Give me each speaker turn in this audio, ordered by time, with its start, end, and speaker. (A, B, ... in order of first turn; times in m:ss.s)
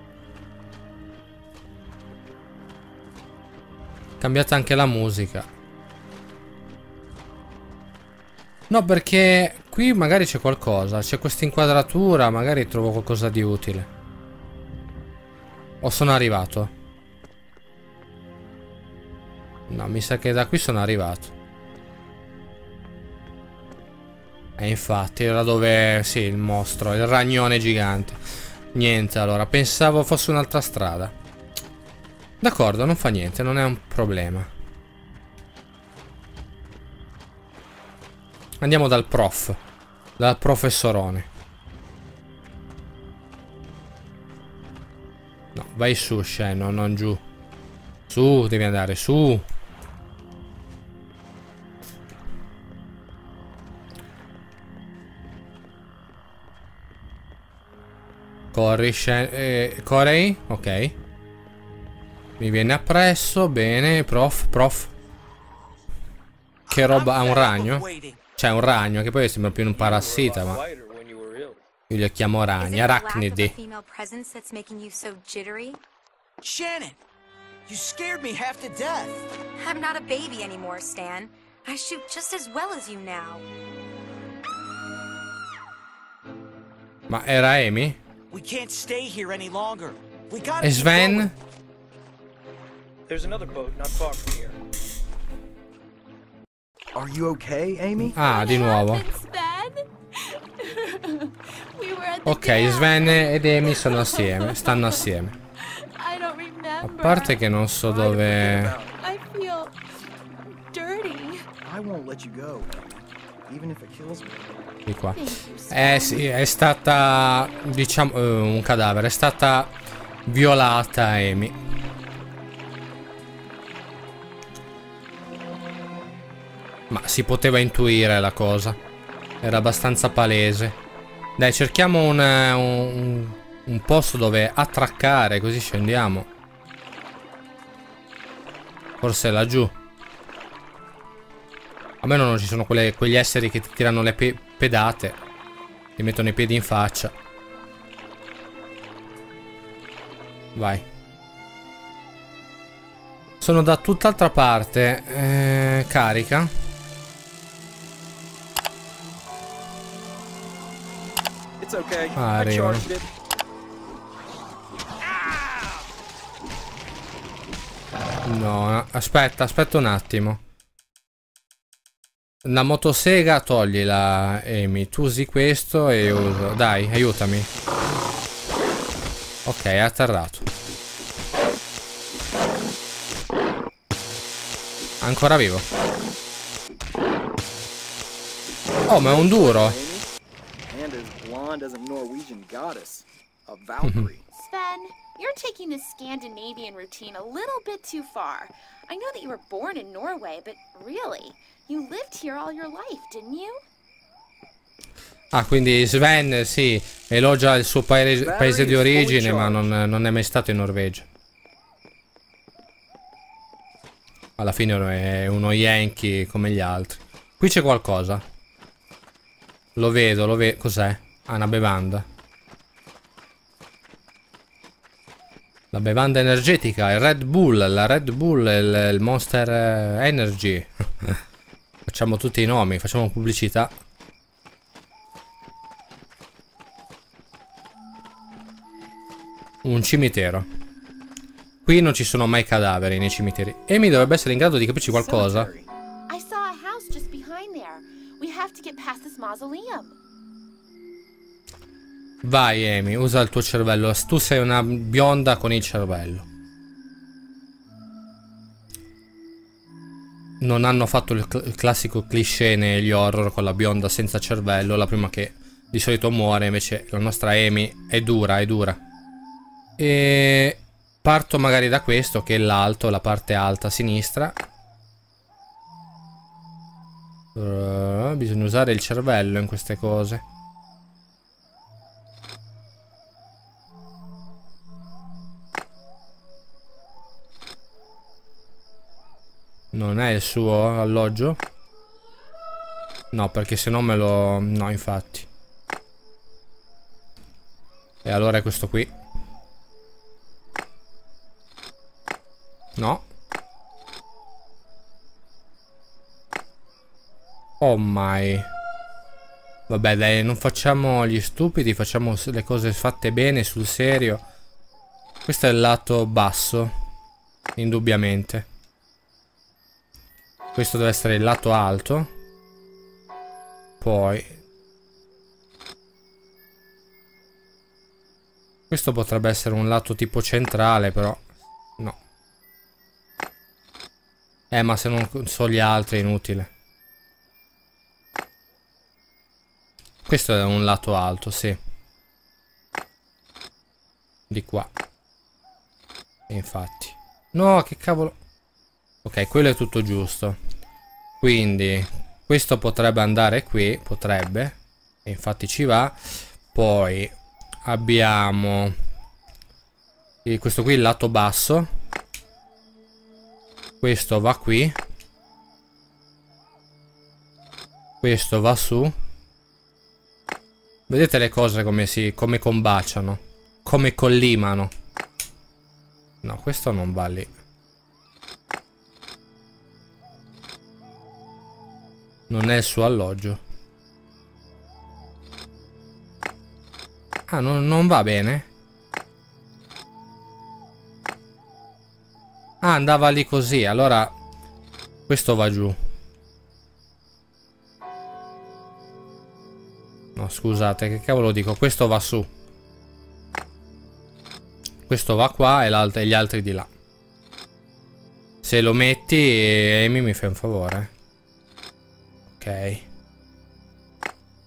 0:04.2-0:05.5 A
0:08.7-0:13.9 A
0:15.8-0:16.7 A
0:19.7-0:21.3 A
0:24.6-0:28.2 A
0:28.7-0:31.1 A
0:32.4-0:34.5 A
0:38.6-0:39.6 A
0:40.2-0:41.3 A
0:45.6-0:47.2 A
0:48.1-0:49.4 A
0:58.5-1:01.0 A
1:02.4-1:04.9 A
1:06.7-1:08.2 B
1:06.7-1:10.6 A
1:09.8-1:11.6 C
1:11.9-1:13.5 A
1:12.6-1:15.8 D
1:16.4-1:17.0 B
1:17.7-1:19.3 B
1:19.6-1:23.5 D
1:27.1-1:28.0 A
1:28.3-1:31.3 B
1:30.6-1:31.3 A
1:33.1-1:34.6 C
1:37.0-1:38.2 E
1:38.1-1:39.1 A
1:38.2-1:45.0 F
1:42.2-1:45.4 A
1:45.6-1:47.5 F
1:46.8-1:48.8 A
1:48.2-1:48.9 E
1:48.4-1:49.8 F
1:50.7-1:51.5 F
1:51.6-1:52.8 E
1:53.5-1:54.4 E
1:54.9-1:59.7 A
1:55.1-1:56.3 F
2:00.3-2:01.6 A
2:06.9-2:08.8 A
2:09.4-2:10.8 A
2:11.4-2:16.3 A
2:19.0-2:19.7 A
2:22.0-2:25.2 A
2:26.0-2:27.1 A
2:30.6-2:30.8 A
2:33.4-2:36.5 A
2:41.6-2:43.1 E
2:42.2-2:42.9 A
2:45.0-2:45.9 E
2:48.2-2:50.4 A
2:52.4-2:57.5 A
2:59.4-3:00.5 A
3:05.0-3:05.7 A
3:08.9-3:09.8 A
3:08.9-3:10.1 E
3:10.7-3:14.3 E
3:13.8-3:14.1 A
3:14.3-3:23.6 F
3:25.3-3:31.1 A
3:28.2-3:29.5 E
3:28.6-3:29.4 C
3:34.4-3:38.2 A
3:39.8-3:42.0 A
3:45.7-3:51.2 A
3:51.9-3:53.7 A
3:59.6-4:00.5 A
4:01.6-4:05.5 A
4:04.9-4:05.7 E
4:06.1-4:10.0 F
4:12.2-4:16.3 A
4:20.4-4:28.8 A
4:29.8-4:34.4 A
4:37.4-4:40.2 A
4:49.7-4:51.4 A
4:53.1-4:55.3 A
4:58.0-4:58.9 A
5:02.8-5:03.0 A
5:07.6-5:08.5 A
5:09.7-5:14.2 A
5:15.3-5:16.7 A
5:17.6-5:18.5 A
5:20.6-5:22.1 A
5:23.8-5:24.4 A
5:28.7-5:31.2 A
5:34.5-5:36.5 A
5:40.1-5:41.6 A
5:44.3-5:44.7 A
5:46.3-5:48.2 A
5:49.0-5:50.4 A
5:51.2-5:56.0 A
5:56.5-5:57.1 A
5:57.6-5:58.7 A
6:00.2-6:01.7 A
6:03.8-6:04.8 A
6:08.0-6:09.0 A
6:10.9-6:14.7 A
6:16.2-6:17.3 A
6:22.3-6:23.4 A
6:27.3-6:28.5 A
6:32.6-6:34.1 A
6:35.1-6:35.8 A
6:40.2-6:42.3 A
6:44.9-6:46.7 A
6:48.4-6:50.9 A
6:52.4-6:52.8 A